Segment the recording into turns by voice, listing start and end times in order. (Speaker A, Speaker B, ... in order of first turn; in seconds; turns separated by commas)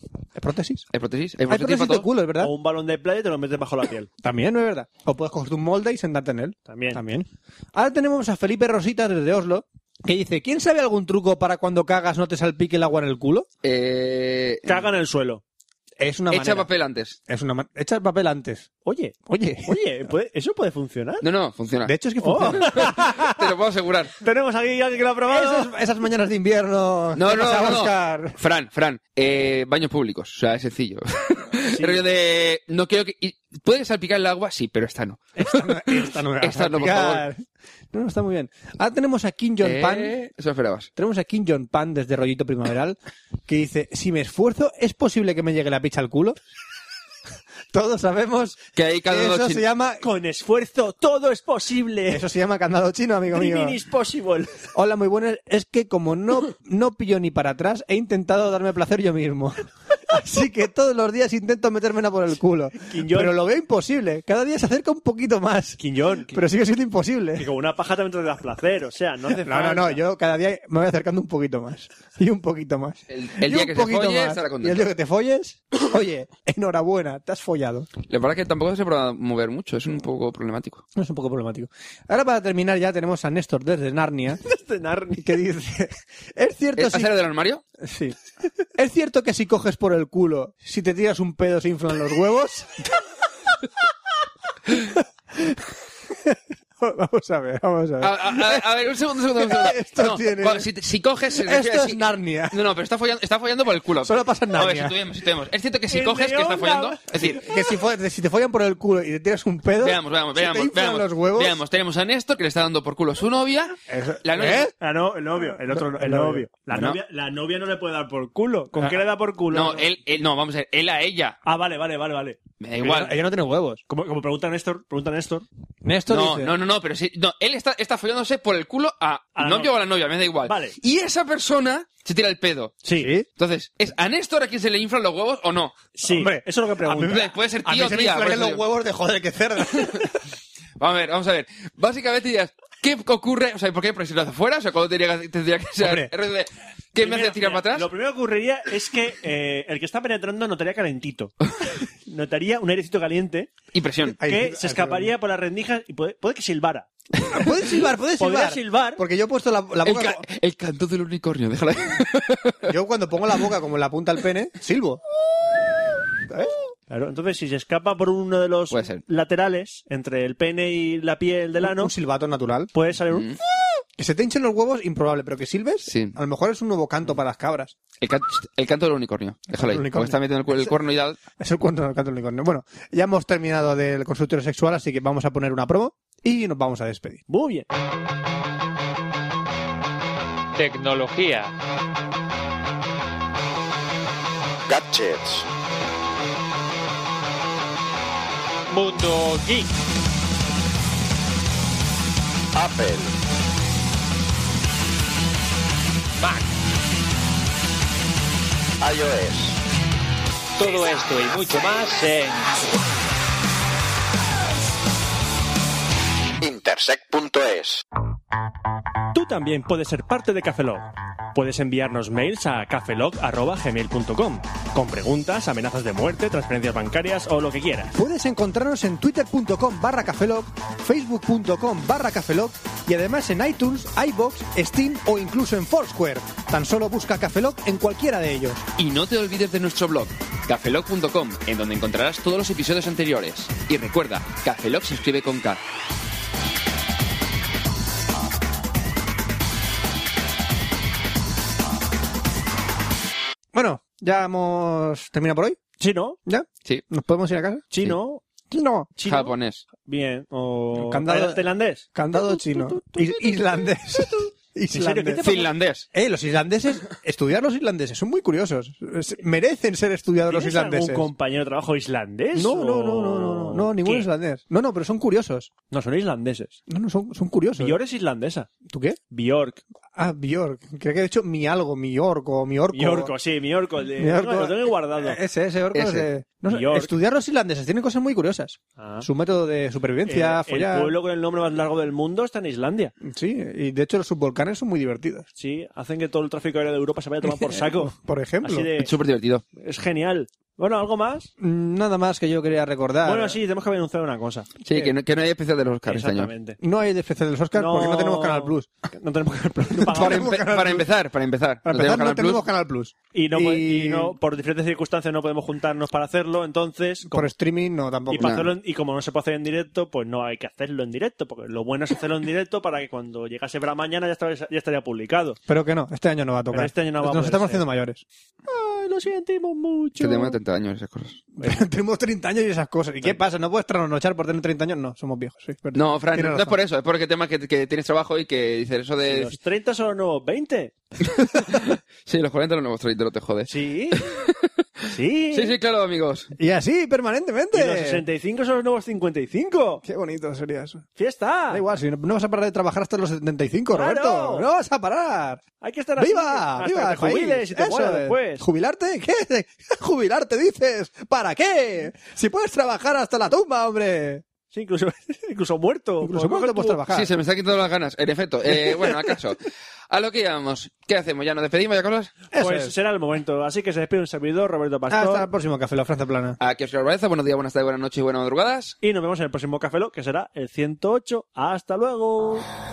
Speaker A: 0.4-0.8, Speaker B: 0.9-2.1, Speaker A: 1.5-2.5, Speaker C: 2.4-4.1, Speaker A: 4.2-13.5, Speaker C: 6.7-7.0, Speaker B: 13.6-14.8, Speaker C: 14.7-15.4, Speaker A: 16.0-16.7, Speaker B: 16.3-17.2, Speaker A: 17.3-18.7, Speaker C: 18.9-21.3, Speaker A: 19.3-19.8, Speaker B: 21.2-21.9, Speaker A: 21.9-22.9, Speaker C: 22.2-23.3, Speaker B: 22.5-24.1, Speaker C: 24.2-25.7, Speaker A: 25.3-28.4, Speaker B: 27.2-37.2, Speaker C: 31.7-32.0, Speaker A: 35.4-40.3, Speaker B: 39.6-40.9, Speaker A: 41.0-46.4, Speaker A: 47.7-50.0, Speaker B: 48.8-49.6, Speaker C: 50.0-52.3, Speaker A: 52.1-53.8, Speaker C: 53.3-54.6, Speaker A: 54.7-65.8, Speaker C: 62.8-63.4, Speaker C: 65.8-66.4, Speaker A: 66.3-67.5, Speaker C: 67.4-70.0, Speaker A: 69.3-77.9, Speaker B: 73.1-74.9, Speaker B: 78.1-80.8, Speaker A: 81.0-84.4, Speaker C: 84.4-85.4, Speaker A: 85.2-87.1, Speaker B: 86.8-87.6, Speaker A: 87.8-88.2, Speaker A: 88.8-92.8, Speaker A: 94.8-100.7, Speaker B: 98.0-107.4, Speaker A: 101.4-102.6, Speaker A: 104.0-105.0, Speaker C: 105.9-107.5, Speaker A: 107.1-111.6, Speaker B: 109.8-114.7, Speaker A: 113.9-114.7, Speaker C: 114.8-119.9, Speaker A: 115.7-116.5, Speaker B: 116.7-117.0, Speaker B: 119.5-121.4, Speaker C: 121.5-123.1, Speaker B: 122.6-123.1, Speaker A: 122.8-123.8, Speaker C: 123.9-125.5, Speaker A: 125.8-126.5, Speaker B: 126.1-132.8, Speaker C: 129.3-129.7, Speaker C: 130.4-130.8, Speaker C: 132.8-133.1, Speaker A: 133.0-133.3, Speaker B: 133.4-135.8, Speaker C: 136.0-137.2, Speaker A: 136.1-140.2, Speaker B: 137.1-138.6, Speaker B: 139.7-140.1, Speaker B: 140.8-147.9, Speaker A: 145.8-146.1, Speaker C: 147.0-151.3, Speaker C: 152.1-153.5, Speaker B: 153.7-154.2, Speaker A: 154.2-155.1, Speaker C: 154.2-156.9, Speaker A: 157.3-160.2, Speaker C: 158.2-159.0, Speaker B: 159.8-162.7, Speaker A: 162.6-165.0, Speaker A: 166.3-166.5, Speaker C: 166.9-171.9, Speaker B: 168.7-169.0, Speaker A: 171.6-172.7, Speaker C: 172.7-173.3, Speaker B: 173.1-173.4, Speaker A: 174.0-177.8, Speaker B: 175.9-176.2, Speaker B: 178.0-181.2, Speaker A: 179.5-180.7, Speaker A: 181.4-187.2, Speaker C: 187.3-187.7, Speaker D: 190.5-191.5, Speaker E: 194.7-195.5, Speaker D: 198.7-199.7, Speaker E: 202.5-203.1, Speaker D: 206.2-206.5, Speaker E: 208.8-209.6, Speaker D: 210.6-212.7, Speaker E: 216.4-217.8, Speaker C: 219.1-227.9, Speaker A: 227.9-238.7, Speaker B: 238.8-245.6, Speaker A: 253.5-255.6, Speaker C: 255.8-256.2, Speaker A: 256.2-257.7, Speaker C: 257.7-258.2, Speaker A: 258.5-258.9, Speaker C: 259.0-265.5, Speaker B: 259.1-259.6, Speaker A: 260.7-265.2, Speaker B: 265.2-265.9, Speaker A: 265.9-271.1, Speaker C: 270.3-274.1, Speaker A: 272.3-275.5, Speaker C: 275.7-276.6, Speaker A: 276.7-277.8, Speaker C: 277.6-278.5, Speaker A: 278.7-279.0, Speaker C: 279.1-279.6, Speaker A: 280.0-283.1, Speaker C: 282.7-285.2, Speaker A: 284.0-290.9, Speaker B: 285.7-286.1, Speaker C: 286.5-286.9, Speaker C: 288.8-289.1, Speaker C: 290.1-292.9, Speaker A: 293.0-295.3, Speaker C: 295.4-298.9, Speaker A: 297.3-298.7, Speaker B: 298.8-299.4, Speaker C: 299.6-301.3, Speaker A: 301.4-303.4, Speaker C: 303.0-304.6, Speaker B: 304.6-306.3, Speaker C: 305.9-306.6, Speaker A: 306.6-308.7, Speaker C: 307.5-310.4, Speaker A: 309.8-310.9, Speaker B: 309.9-312.4, Speaker A: 311.6-314.2, Speaker C: 313.1-317.3, Speaker A: 317.1-318.5, Speaker C: 318.1-325.4, Speaker A: 325.5-328.0, Speaker C: 326.5-327.6, Speaker C: 328.4-330.4, Speaker B: 330.0-331.2, Speaker A: 331.4-336.6, Speaker B: 335.7-339.4, Speaker C: 339.0-340.7, Speaker B: 341.4-344.5, Speaker C: 343.5-344.1, Speaker C: 344.9-345.6, Speaker B: 345.3-346.3, Speaker A: 346.4-348.0, Speaker C: 347.5-349.8, Speaker A: 349.8-350.9, Speaker C: 351.0-351.6, Speaker A: 351.5-355.4, Speaker C: 353.7-354.5, Speaker C: 355.6-358.4, Speaker A: 356.0-364.2, Speaker C: 364.5-366.9, Speaker A: 366.0-367.1, Speaker B: 366.9-372.2, Speaker A: 372.3-372.7, Speaker C: 372.3-375.3, Speaker A: 374.9-376.4, Speaker B: 376.4-378.8, Speaker C: 378.8-382.5